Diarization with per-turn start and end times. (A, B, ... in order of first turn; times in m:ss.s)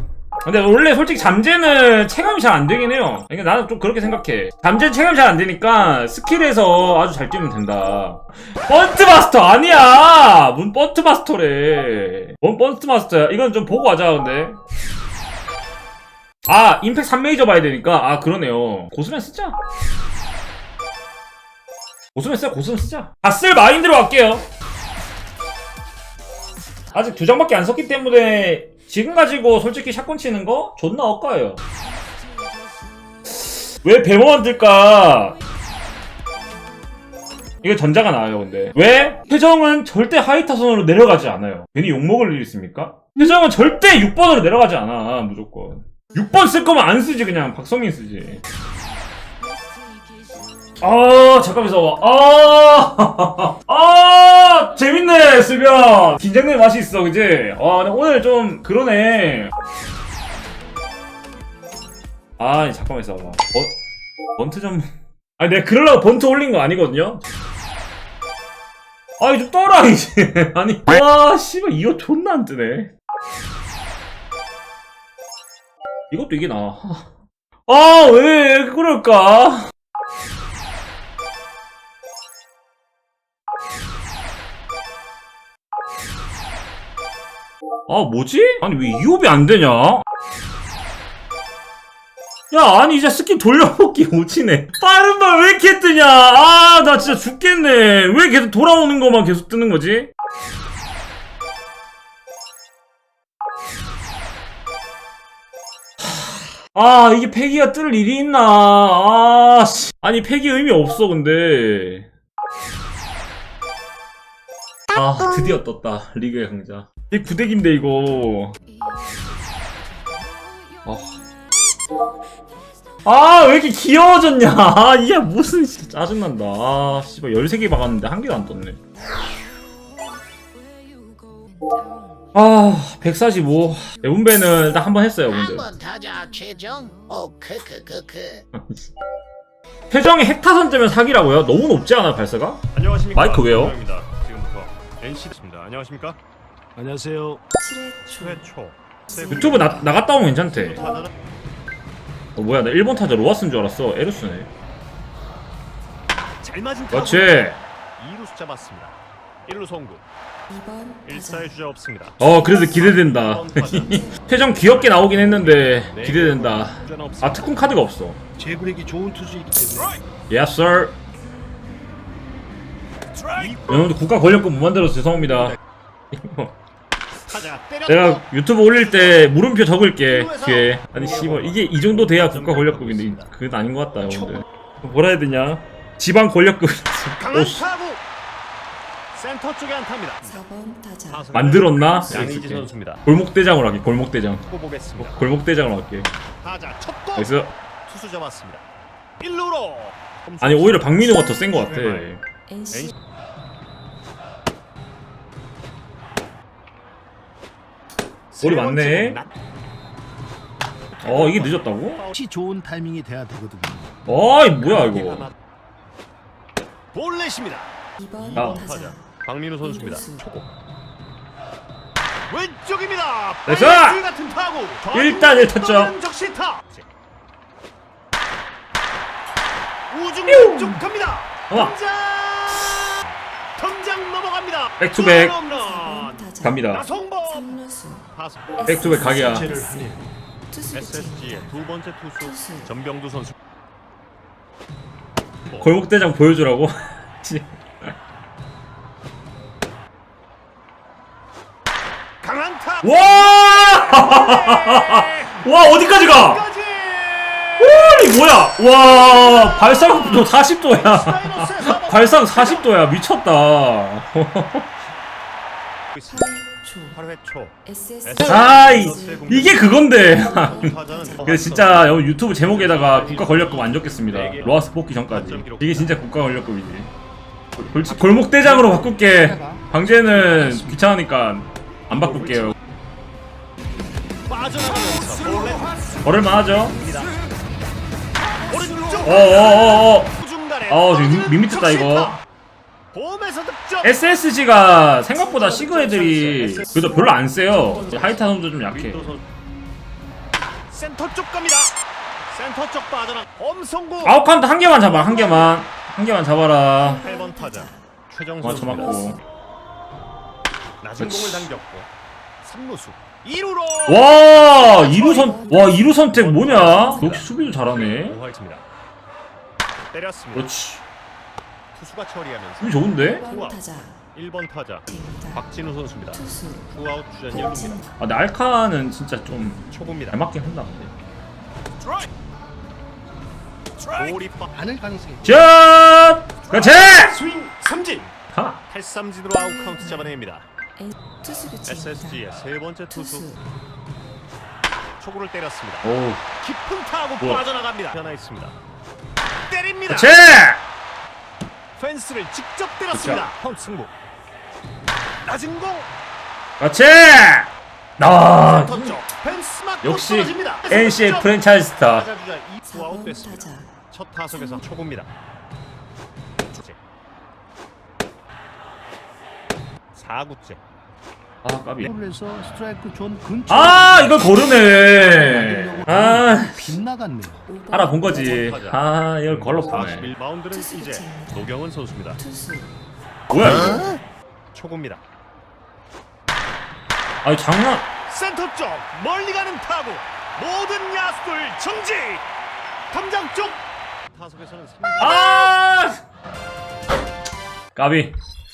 0:00.4-0:14.6 A
0:16.4-0:19.6 A
0:22.1-0:24.4 A
0:26.9-0:31.6 A
0:33.4-0:35.4 A
0:37.6-0:48.4 A
0:50.8-0:59.5 A
1:02.4-1:03.7 A
1:04.4-1:07.2 A
1:09.2-1:12.9 A
1:16.1-1:17.1 A
1:17.7-1:19.7 A
1:27.9-1:30.0 A
1:32.5-1:40.1 A
1:46.0-1:52.1 A
1:54.9-1:58.5 A
2:00.8-2:01.2 A
2:03.0-2:08.8 A
2:12.3-2:15.8 A
2:15.4-2:18.4 B
2:18.5-2:18.9 A
2:19.9-2:23.8 A
2:22.7-2:26.2 C
2:26.8-2:27.4 D
2:27.6-2:28.2 E
2:28.1-2:29.3 C
2:29.2-2:31.0 A
2:32.4-2:34.5 A
2:36.4-2:40.0 C
2:36.9-2:37.6 A
2:40.5-2:41.0 E
2:41.0-2:47.6 C
2:42.2-2:48.2 A
2:48.4-2:50.0 D
2:50.3-2:51.0 A
2:53.3-2:53.7 C
2:53.7-2:55.6 A
2:56.1-2:56.5 A
2:57.3-2:59.3 C
2:57.9-3:07.6 A
3:00.0-3:03.3 C
3:07.2-3:08.0 C
3:09.1-3:10.5 C
3:10.3-3:11.1 E
3:11.1-3:13.0 C
3:11.3-3:14.4 A
3:14.4-3:15.2 C
3:15.0-3:16.1 A
3:16.4-3:17.3 C
3:17.2-3:17.5 A
3:17.8-3:18.6 C
3:19.2-3:22.1 C
3:20.4-3:22.2 A
3:28.3-3:29.3 C
3:28.4-3:29.2 A
3:31.0-3:32.2 C
3:31.0-3:32.0 A
3:32.1-3:33.9 D
3:34.1-3:35.3 A
3:34.6-3:35.3 C
3:36.9-3:40.5 C
3:38.0-3:38.7 E
3:38.3-3:38.7 A
3:42.3-3:46.8 C
3:43.4-3:44.0 A
3:44.9-3:45.9 A
3:49.9-3:53.0 C
3:50.3-3:50.8 A
3:51.5-3:51.8 A
3:53.6-3:57.6 C
3:54.8-3:55.4 A
3:55.8-3:56.4 E
3:56.4-3:56.8 A
3:57.4-3:58.0 E
3:58.1-3:58.7 C
3:58.6-3:59.5 A
3:58.7-3:59.0 E
3:59.0-4:00.0 D
4:00.5-4:01.4 E
4:00.7-4:03.3 C
4:02.3-4:02.6 E
4:05.5-4:07.9 A
4:12.2-4:17.8 C
4:12.8-4:16.4 A
4:17.6-4:24.7 A
4:18.9-4:22.7 C
4:25.9-4:34.5 C
4:26.2-4:26.9 E
4:27.7-4:28.9 E
4:28.2-4:36.9 A
4:30.4-4:31.2 E
4:35.1-4:35.9 C
4:37.6-4:42.5 A
4:37.9-4:38.4 C
4:39.3-4:39.6 D
4:44.3-4:46.0 C
4:46.0-4:46.8 A
4:46.8-4:47.1 C
4:48.4-4:52.2 C
4:49.0-4:50.1 A
4:50.7-4:52.2 A
4:52.9-4:53.9 C
4:53.8-4:59.2 A
4:55.5-4:57.2 C
4:57.7-4:59.2 C
5:00.7-5:01.7 C
5:02.3-5:04.2 C
5:04.0-5:07.0 A
5:05.0-5:05.6 C
5:07.0-5:07.7 E
5:07.0-5:09.2 C
5:08.4-5:09.2 A
5:10.8-5:11.9 C
5:11.0-5:11.5 A
5:12.4-5:15.4 C
5:13.9-5:18.2 A
5:16.0-5:18.6 C
5:19.9-5:20.5 C
5:20.3-5:20.8 A
5:21.7-5:27.8 C
5:22.6-5:23.3 A
5:23.2-5:23.9 E
5:25.0-5:25.3 E
5:26.2-5:26.6 E
5:27.5-5:27.8 E
5:28.0-5:30.9 A
5:29.7-5:30.2 C
5:34.0-5:34.6 C
5:34.5-5:35.4 D
5:35.2-5:37.2 A
5:36.5-5:38.1 C
5:38.3-5:38.6 A
5:38.7-5:40.4 C
5:40.8-5:42.1 E
5:41.6-5:43.3 C
5:43.0-5:43.4 E
5:45.0-5:45.9 C
5:45.8-5:46.2 A
5:46.4-5:48.6 C
5:49.5-5:50.1 C
5:49.9-5:50.6 A
5:51.8-5:53.9 C
5:52.9-5:53.3 A
5:55.2-5:55.9 C
5:56.6-5:59.0 A
5:58.5-6:05.1 C
5:59.8-6:02.1 A
6:02.7-6:03.8 E
6:09.9-6:10.6 C
6:11.4-6:11.9 A
6:11.8-6:14.4 D
6:13.5-6:16.8 A
6:15.0-6:17.5 D
6:17.7-6:20.1 A
6:18.1-6:22.2 C
6:20.6-6:21.3 E
6:22.2-6:22.7 E
6:23.3-6:24.0 A
6:24.5-6:25.0 C
6:27.2-6:27.9 A
6:28.1-6:32.2 C
6:32.9-6:35.5 C
6:35.0-6:36.0 A
6:37.7-6:38.1 A